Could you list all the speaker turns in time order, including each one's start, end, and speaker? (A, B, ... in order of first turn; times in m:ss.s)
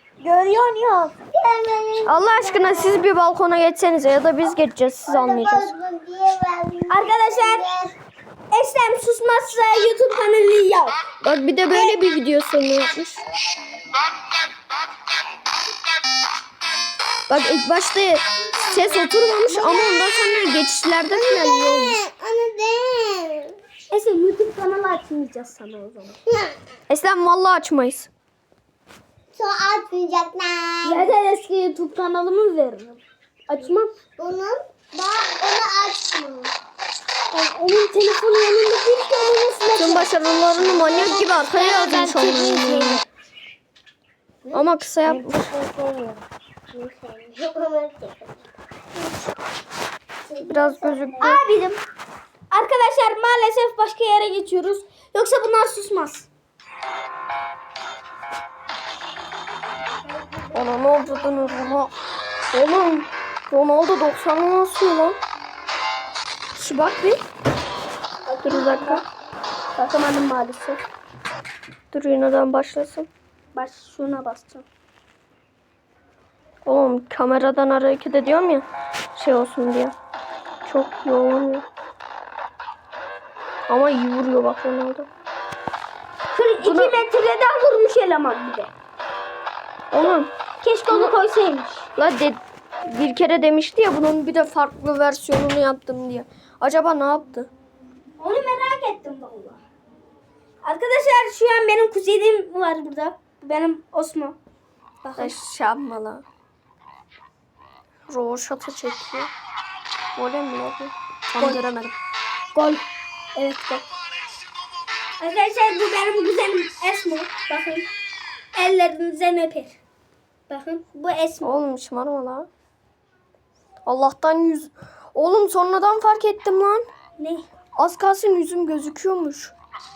0:00.2-0:01.2 A
0:01.3-0:03.0 B
0:02.0-0:05.7 C
0:05.1-0:08.0 B
0:06.9-0:07.7 A
0:08.5-0:11.0 A
0:11.2-0:13.2 C
0:17.3-0:22.0 C
0:18.5-0:19.8 A
0:21.4-0:23.6 B
0:23.9-0:26.2 A
0:26.3-0:26.5 B
0:26.9-0:28.1 C
0:29.4-0:31.0 B
0:30.8-0:33.9 A
0:34.2-0:36.5 B
0:37.3-0:43.0 A
0:39.7-0:43.0 C
0:44.5-0:45.4 C
0:45.1-0:45.4 A
0:45.2-0:46.2 B
0:46.7-0:48.4 B
0:50.3-0:51.4 B
0:50.4-0:51.4 C
0:51.2-0:51.8 A
0:52.5-0:56.3 A
1:00.0-1:01.7 A
1:00.5-1:01.9 C
1:02.5-1:05.2 C
1:06.6-1:07.2 C
1:08.3-1:09.1 A
1:08.4-1:09.0 C
1:09.8-1:10.8 A
1:11.9-1:13.1 C
1:13.6-1:14.6 A
1:16.6-1:20.0 C
1:20.7-1:21.6 C
1:23.7-1:25.1 C
1:26.3-1:28.7 A
1:26.6-1:27.0 C
1:29.9-1:30.3 C
1:30.6-1:31.9 A
1:30.9-1:31.2 C
1:32.0-1:37.5 C
1:38.2-1:39.6 A
1:40.6-1:44.4 A
1:45.0-1:45.4 A
1:45.2-1:46.2 C
1:48.1-1:49.3 C
1:50.2-1:52.0 C
1:52.5-1:52.8 A
1:53.4-1:53.8 A
1:55.2-1:57.9 A
1:58.6-1:59.8 A
2:00.5-2:01.5 A
2:01.4-2:02.5 C
2:03.8-2:06.9 C
2:07.2-2:07.5 A
2:07.8-2:09.5 C